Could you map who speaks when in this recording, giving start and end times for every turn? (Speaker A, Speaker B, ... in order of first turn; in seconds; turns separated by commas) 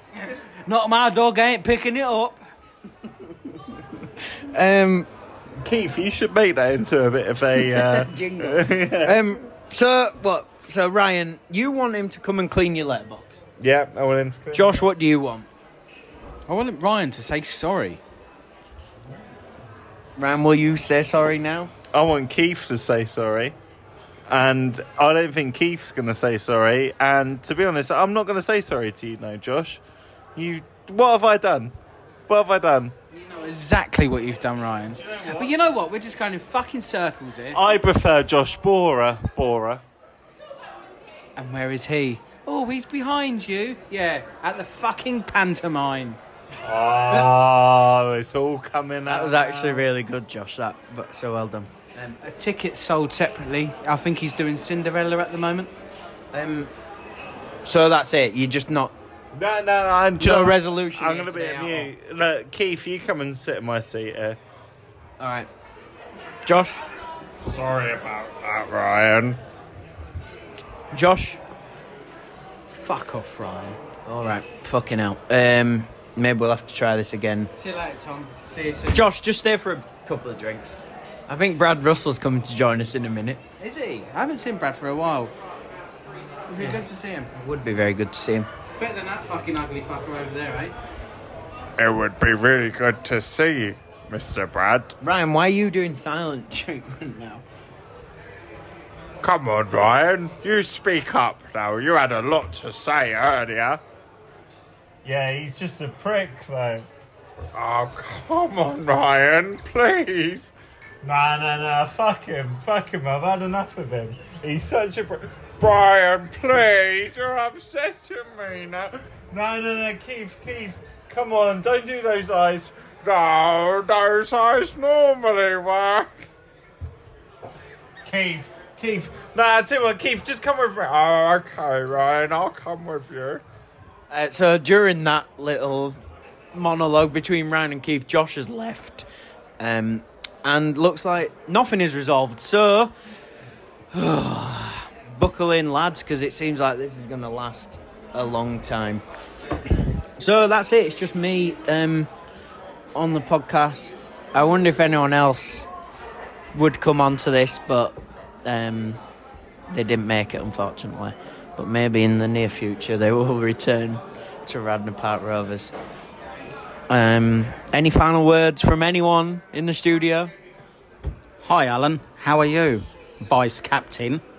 Speaker A: 0.2-2.4, Speaker B: 4.4-5.1, Speaker C: 5.6-9.2, Speaker B: 7.5-13.4, Speaker C: 13.6-14.9, Speaker B: 14.5-15.5, Speaker A: 16.5-18.0, Speaker B: 20.2-21.7, Speaker C: 21.9-23.6, Speaker C: 24.3-29.8, Speaker C: 30.4-31.7, Speaker C: 32.3-32.9, Speaker A: 33.1-37.6, Speaker C: 34.9-35.5, Speaker C: 37.5-39.8, Speaker A: 41.4-46.2, Speaker C: 46.6-49.9, Speaker B: 49.1-52.2, Speaker A: 52.2-55.7, Speaker B: 56.3-56.7, Speaker B: 57.6-58.9, Speaker C: 59.3-64.4, Speaker B: 60.2-61.9, Speaker B: 65.2-65.5, Speaker B: 66.4-66.8, Speaker C: 67.4-69.4, Speaker B: 70.9-71.4, Speaker A: 72.7-73.8, Speaker B: 74.0-77.5, Speaker A: 77.5-79.1, Speaker B: 78.9-83.4, Speaker A: 83.6-85.3, Speaker A: 86.5-87.3, Speaker B: 87.3-88.5, Speaker A: 88.8-90.8, Speaker C: 91.8-94.9, Speaker B: 95.0-97.4, Speaker C: 99.2-103.8, Speaker C: 105.0-106.9, Speaker C: 107.5-126.1, Speaker C: 128.0-133.4, Speaker B: 134.1-136.0, Speaker B: 136.5-139.1, Speaker B: 139.6-142.9, Speaker B: 143.9-149.0, Speaker B: 150.2-152.1, Speaker B: 152.9-155.7, Speaker B: 156.5-159.0, Speaker B: 159.7-165.7, Speaker B: 166.9-170.3, Speaker A: 171.4-174.2